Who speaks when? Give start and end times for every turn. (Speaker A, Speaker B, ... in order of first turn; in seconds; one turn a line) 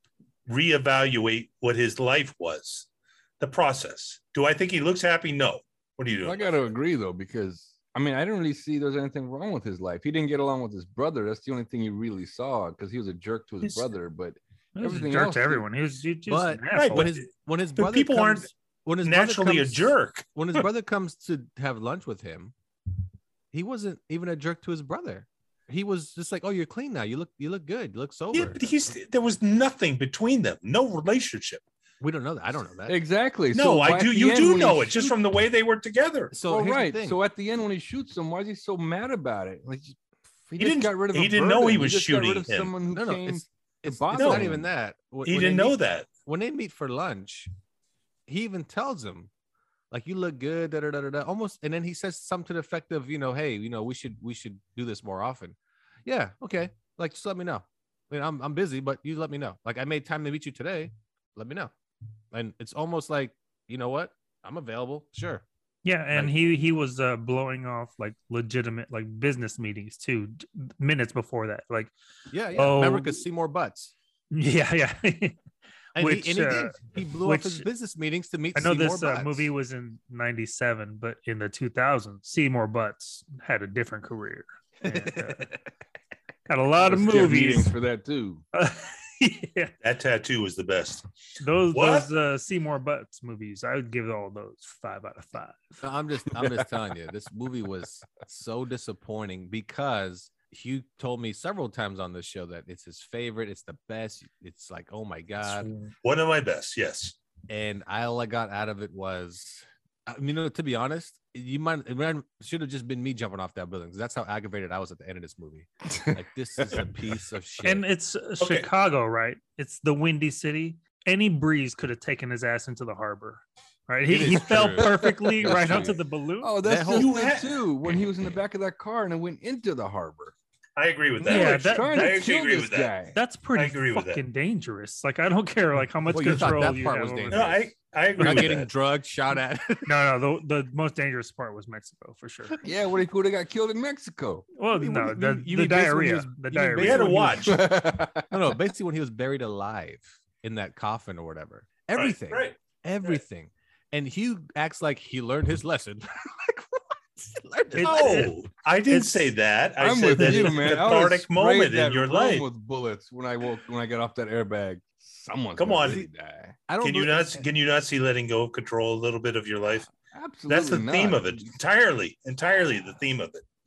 Speaker A: 0.5-2.9
Speaker A: 3.4-6.5
Speaker B: 6.2-15.7
Speaker C: 14.8-17.1
Speaker D: 16.3-22.5
Speaker A: 16.8-17.2
Speaker A: 17.8-18.5
Speaker A: 19.0-20.6
Speaker D: 23.5-28.7
Speaker A: 28.3-31.6
Speaker D: 32.0-33.0
Speaker B: 32.9-35.2
Speaker A: 33.5-36.3
Speaker D: 36.3-37.2
Speaker B: 36.5-40.0
Speaker B: 40.5-44.7
Speaker A: 40.6-42.7
Speaker D: 42.9-47.5
Speaker A: 44.1-44.5
Speaker A: 45.3-46.1
Speaker D: 48.3-49.3
Speaker D: 49.9-61.7
Speaker D: 62.3-65.4
Speaker C: 65.8-71.9
Speaker D: 72.3-73.9
Speaker C: 72.5-73.2
Speaker C: 74.3-75.4
Speaker D: 76.0-79.5
Speaker C: 76.0-77.7
Speaker C: 78.5-85.5
Speaker D: 84.8-85.6
Speaker C: 86.5-87.7
Speaker B: 86.8-88.4
Speaker C: 88.5-89.7
Speaker A: 89.8-91.1
Speaker C: 91.4-95.8
Speaker A: 91.7-92.1
Speaker D: 95.8-105.7
Speaker B: 96.3-96.7
Speaker A: 105.4-107.2
Speaker D: 107.5-117.8
Speaker B: 115.9-116.2
Speaker C: 117.6-126.5
Speaker A: 118.4-118.7
Speaker D: 124.1-126.0
Speaker B: 124.8-130.3
Speaker D: 126.6-127.1
Speaker A: 126.9-127.6
Speaker A: 130.8-132.9
Speaker B: 131.2-133.2
Speaker C: 131.2-132.2
Speaker C: 133.1-137.6
Speaker A: 133.6-134.2
Speaker D: 136.1-140.0
Speaker A: 137.3-138.7
Speaker C: 138.2-138.5
Speaker C: 139.9-142.6
Speaker B: 142.6-144.5
Speaker C: 144.6-147.4
Speaker D: 144.7-147.6
Speaker A: 146.8-147.6
Speaker B: 147.5-148.3
Speaker D: 148.3-158.3
Speaker A: 151.9-153.2
Speaker A: 157.8-162.5
Speaker C: 157.8-158.3
Speaker C: 158.9-159.2
Speaker B: 159.8-166.6
Speaker A: 165.6-166.0
Speaker D: 166.7-167.5
Speaker A: 166.8-169.9
Speaker B: 170.1-171.5
Speaker A: 170.5-173.4